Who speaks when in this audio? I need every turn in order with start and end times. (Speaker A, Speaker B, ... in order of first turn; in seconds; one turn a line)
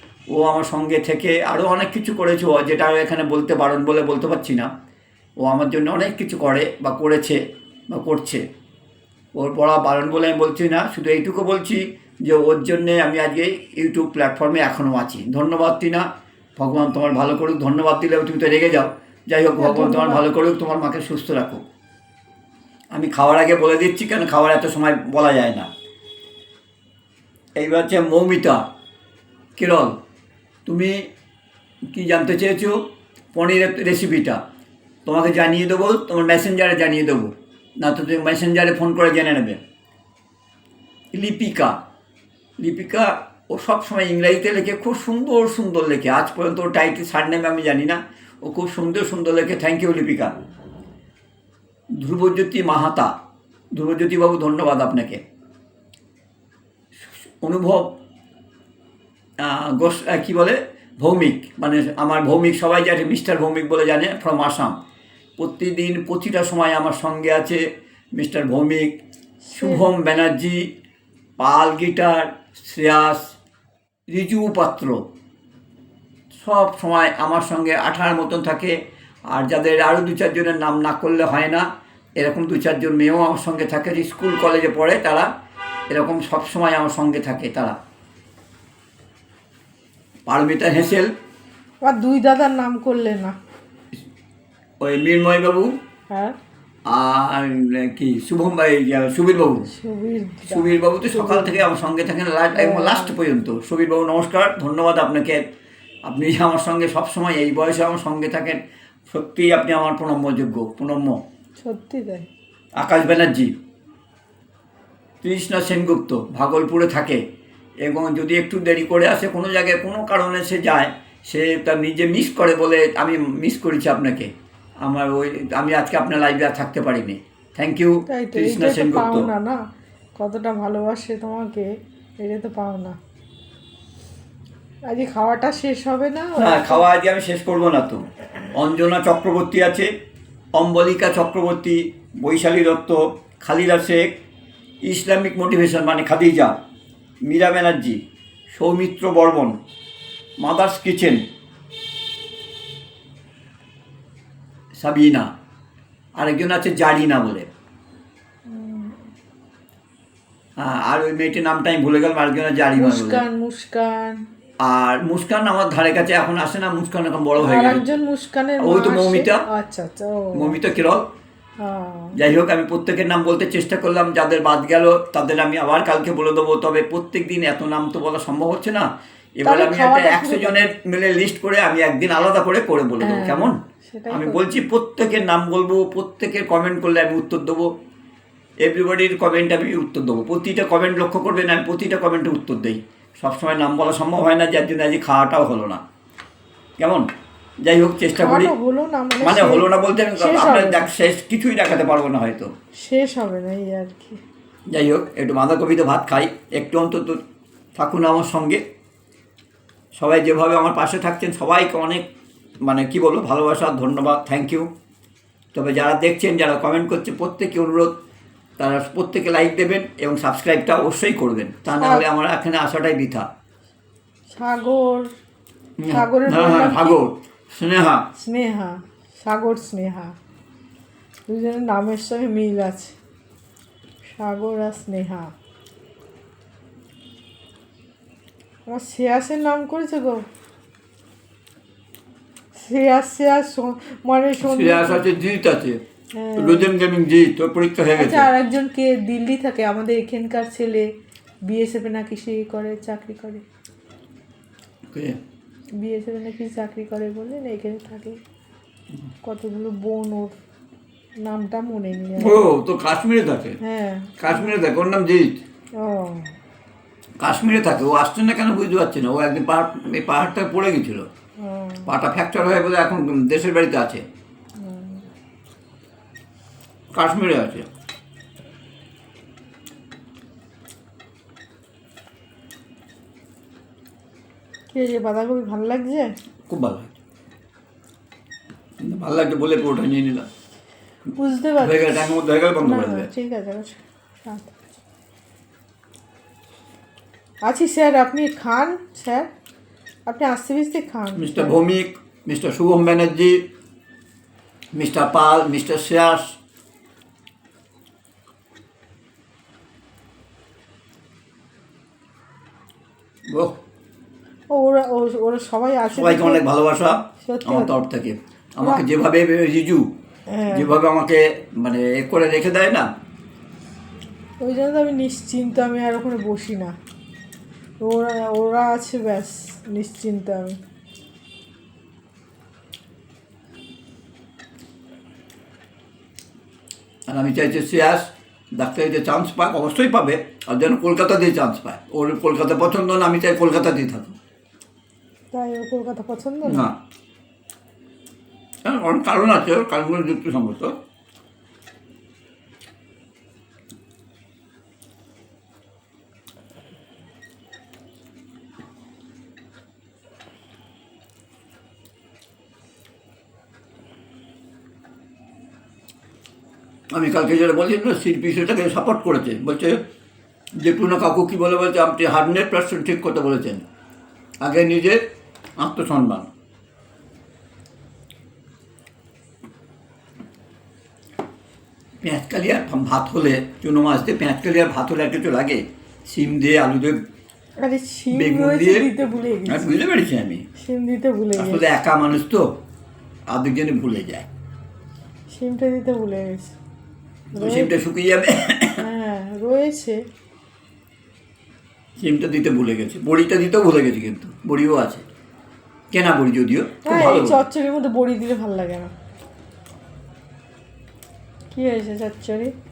Speaker A: 0.3-4.7
Speaker A: 5.4-8.4
Speaker A: 9.3-21.6
Speaker B: 19.6-20.2
Speaker A: 22.9-25.7
Speaker A: 27.6-28.6
Speaker A: 29.6-29.9
Speaker A: 30.6-31.0
Speaker A: 31.9-32.8
Speaker A: 33.3-34.4
Speaker A: 35.0-39.6
Speaker A: 41.1-41.8
Speaker A: 42.6-50.3
Speaker A: 51.9-53.1
Speaker A: 53.7-55.2
Speaker A: 57.4-58.0
Speaker A: 59.4-64.8
Speaker A: 65.4-67.6
Speaker A: 68.1-69.0
Speaker B: 69.5-69.8
Speaker A: 69.5-70.7
Speaker A: 71.4-73.4
Speaker A: 74.1-75.0
Speaker A: 76.3-78.8
Speaker A: 79.3-81.7
Speaker A: 82.2-85.3
Speaker A: 85.9-87.8
Speaker A: 90.3-91.1
Speaker B: 91.8-93.3
Speaker A: 94.8-95.7
Speaker B: 96.1-96.3
Speaker A: 96.9-99.7
Speaker B: 99.7-101.7
Speaker A: 100.5-105.4
Speaker B: 102.5-103.2
Speaker A: 106.0-111.2
Speaker B: 111.6-112.3
Speaker A: 112.8-113.5
Speaker A: 115.2-117.2
Speaker A: 117.8-124.3
Speaker A: 124.8-129.3
Speaker B: 128.1-129.6
Speaker B: 130.2-131.7
Speaker B: 132.2-132.9
Speaker B: 134.9-136.9
Speaker A: 136.4-139.9
Speaker A: 140.5-144.2
Speaker A: 144.8-146.6
Speaker A: 147.2-149.6
Speaker A: 150.4-151.2
Speaker A: 154.8-155.3
Speaker A: 156.2-157.5
Speaker B: 158.5-159.0
Speaker A: 160.6-163.2
Speaker B: 162.8-164.2
Speaker A: 164.6-167.9
Speaker B: 167.4-170.6
Speaker A: 168.6-169.4
Speaker A: 170.3-171.1
Speaker B: 171.6-172.2
Speaker A: 172.1-183.6
Speaker B: 179.4-180.7
Speaker B: 183.0-184.4
Speaker A: 184.1-187.7
Speaker A: 188.6-195.8
Speaker A: 196.8-197.1
Speaker A: 197.6-198.5
Speaker B: 198.1-200.9
Speaker A: 199.2-202.5
Speaker B: 202.8-204.2
Speaker A: 204.7-207.2
Speaker A: 207.8-208.6
Speaker A: 209.9-212.1
Speaker A: 212.6-214.7
Speaker A: 215.5-217.9
Speaker A: 218.6-223.3
Speaker B: 221.8-222.1
Speaker B: 224.3-225.1
Speaker A: 225.8-228.1
Speaker B: 225.9-227.0
Speaker B: 228.2-230.2
Speaker B: 231.3-232.9
Speaker B: 234.1-235.3
Speaker B: 238.7-240.2
Speaker B: 242.5-245.0
Speaker A: 244.4-245.8
Speaker B: 246.1-246.7
Speaker A: 246.3-248.3
Speaker B: 247.9-250.8
Speaker B: 251.5-253.4
Speaker A: 254.9-255.2
Speaker B: 255.8-258.2
Speaker B: 259.2-260.4
Speaker B: 261.2-262.4
Speaker A: 262.2-263.6
Speaker B: 263.6-264.5
Speaker A: 264.2-265.4
Speaker B: 265.8-266.3
Speaker A: 267.2-271.1
Speaker B: 271.4-271.9
Speaker A: 271.9-274.0
Speaker B: 274.6-275.0
Speaker A: 276.9-277.6
Speaker B: 284.7-286.1
Speaker A: 286.5-287.0
Speaker A: 288.8-290.3
Speaker B: 291.1-292.1
Speaker A: 291.6-293.1
Speaker B: 292.6-294.5
Speaker B: 297.4-299.3
Speaker B: 300.1-301.6
Speaker A: 301.1-303.4
Speaker A: 304.7-306.4
Speaker A: 313.3-313.6
Speaker B: 314.5-316.4
Speaker A: 315.9-319.9
Speaker B: 317.2-317.7
Speaker B: 320.3-320.8
Speaker A: 320.5-322.9
Speaker B: 324.4-326.7
Speaker B: 327.8-330.6
Speaker A: 337.1-344.1
Speaker B: 345.3-346.6
Speaker A: 346.4-346.8
Speaker A: 348.6-350.7
Speaker A: 366.9-369.8
Speaker A: 370.6-373.6
Speaker A: 374.4-375.0
Speaker A: 375.6-376.3
Speaker A: 382.0-387.0
Speaker B: 387.6-389.7
Speaker A: 388.1-388.9
Speaker A: 389.5-390.4
Speaker B: 390.6-391.7
Speaker A: 391.4-392.5
Speaker A: 393.3-394.3
Speaker B: 395.3-396.5
Speaker B: 397.4-397.7
Speaker A: 397.4-398.8
Speaker B: 398.8-400.0
Speaker A: 402.0-405.0
Speaker A: 405.9-407.4
Speaker B: 406.8-408.9
Speaker B: 411.5-412.5